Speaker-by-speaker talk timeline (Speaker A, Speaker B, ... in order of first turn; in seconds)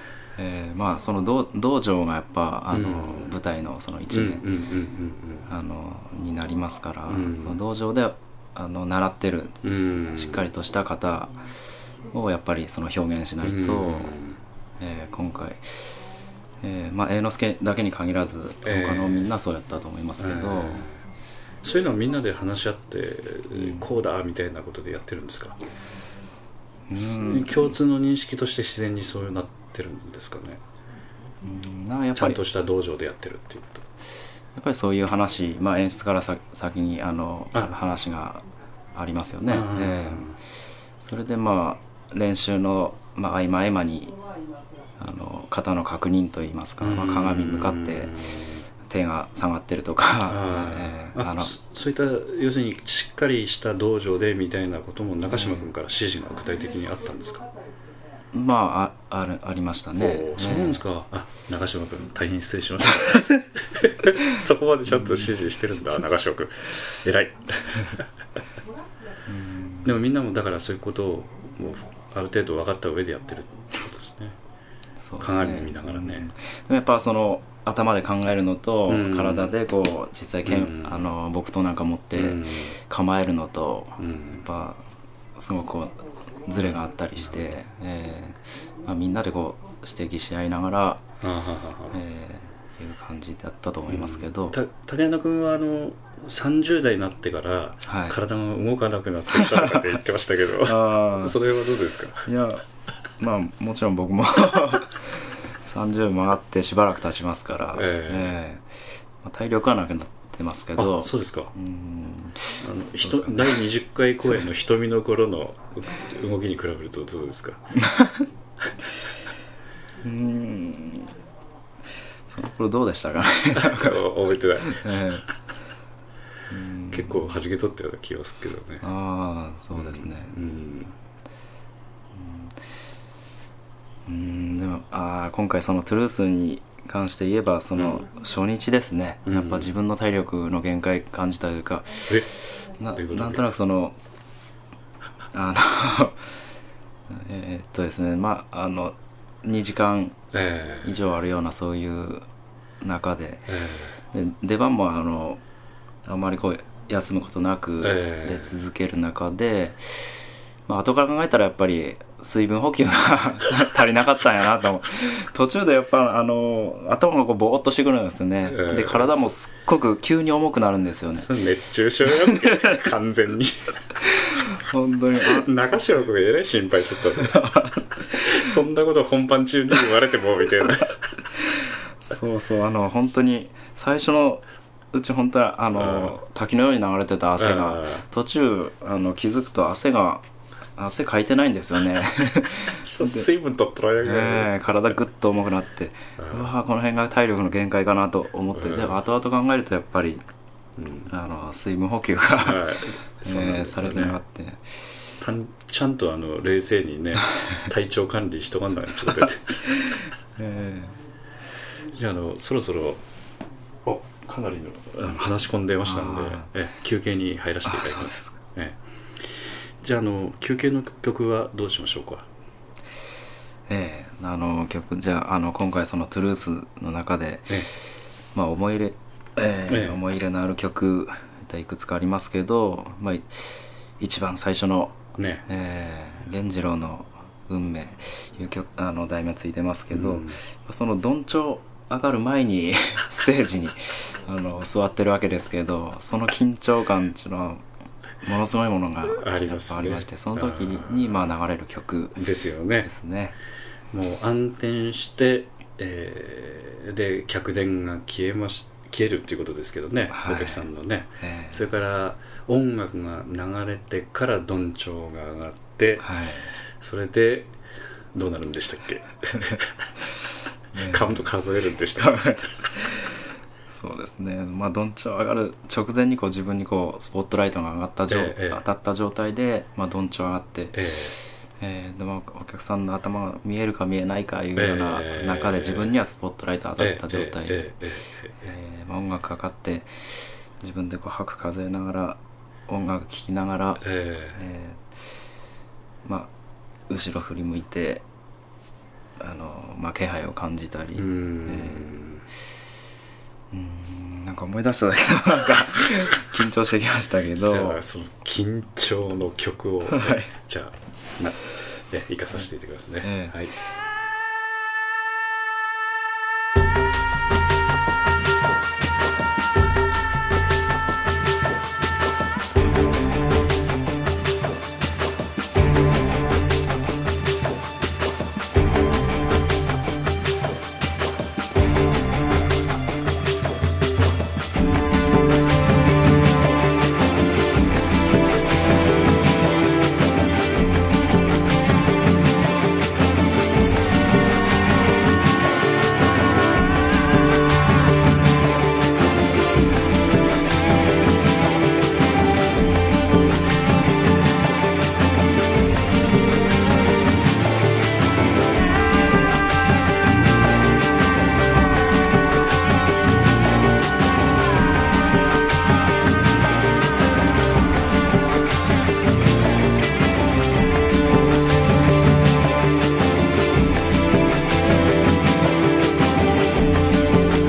Speaker A: 0.3-4.5, 5.5-11.4, 12.1-14.2, 14.8-16.0, 16.6-20.9, 23.5-23.8, 26.9-27.7, 31.4-32.4, 34.5-40.4, 41.0-44.1, 45.0-48.2, 48.9-51.5, 55.3-55.7, 58.3-60.8, 64.9-65.3, 69.2-70.0, 75.0-84.8, 85.4-91.0, 91.9-94.6, 97.8-98.2, 99.3-99.8, 100.6-101.4, 102.2-102.6, 103.2-113.7, 117.9-118.2, 120.0-121.1, 122.3-124.1, 124.6-125.2, 126.5-127.4, 128.8-130.3, 132.1-132.6, 134.1-142.1, 142.8-144.0, 145.3-146.4, 147.1-150.2, 150.8-152.2, 152.8-153.6, 154.1-155.4, 156.0-171.3, 174.2-175.5, 177.3-177.9, 181.5-190.2, 190.8-193.3, 194.0-200.2, 201.1-204.8, 209.8-211.0, 215.8-216.5, 217.6-218.3, 223.7-227.7, 228.3-247.6, 248.2-252.3, 252.8-253.3, 260.1-260.6, 261.2-261.6, 266.0-266.5, 270.7-271.3, 271.9-280.8, 281.6-287.7, 288.4-294.9, 296.0-296.3, 296.9-298.0, 299.2-301.9, 303.5-307.8, 309.9-310.3, 313.0-313.4
Speaker B: 2.7-3.4, 4.1-5.5, 7.1-7.6, 9.6-10.5, 13.4-14.4, 18.6-19.3, 20.2-21.0, 21.6-25.6, 26.9-30.6, 32.1-33.8, 39.5-40.4, 46.8-48.6, 50.2-57.4, 59.9-68.1, 69.8-74.4, 75.2-76.3, 78.9-79.5, 80.4-81.1, 82.1-82.8, 84.0-84.5, 86.6-87.6, 91.2-92.0, 93.9-102.2, 107.7-108.4, 110.8-111.5, 112.6-117.6, 123.5-125.2, 126.9-128.9, 129.7-130.9, 137.7-138.0, 139.2-139.7, 142.0-143.6, 150.3-151.0, 153.5-154.0, 157.8-158.6, 168.4-169.3, 171.1-173.8, 175.2-177.5, 178.0-181.0, 185.7-186.2, 187.4-188.0, 192.8-194.7, 196.2-196.5, 198.5-199.0, 200.8-201.1, 202.4-204.2, 205.2-209.8, 211.9-213.0, 213.8-222.2, 229.7-230.0, 235.2-235.5, 239.9-240.4, 249.1-251.3, 252.2-252.9, 253.9-266.1, 266.8-267.6, 268.1-269.9, 270.8-272.2, 278.1-278.6, 280.7-281.2, 284.6-286.0, 286.8-288.5, 293.8-294.4, 300.9-302.2, 307.4-313.5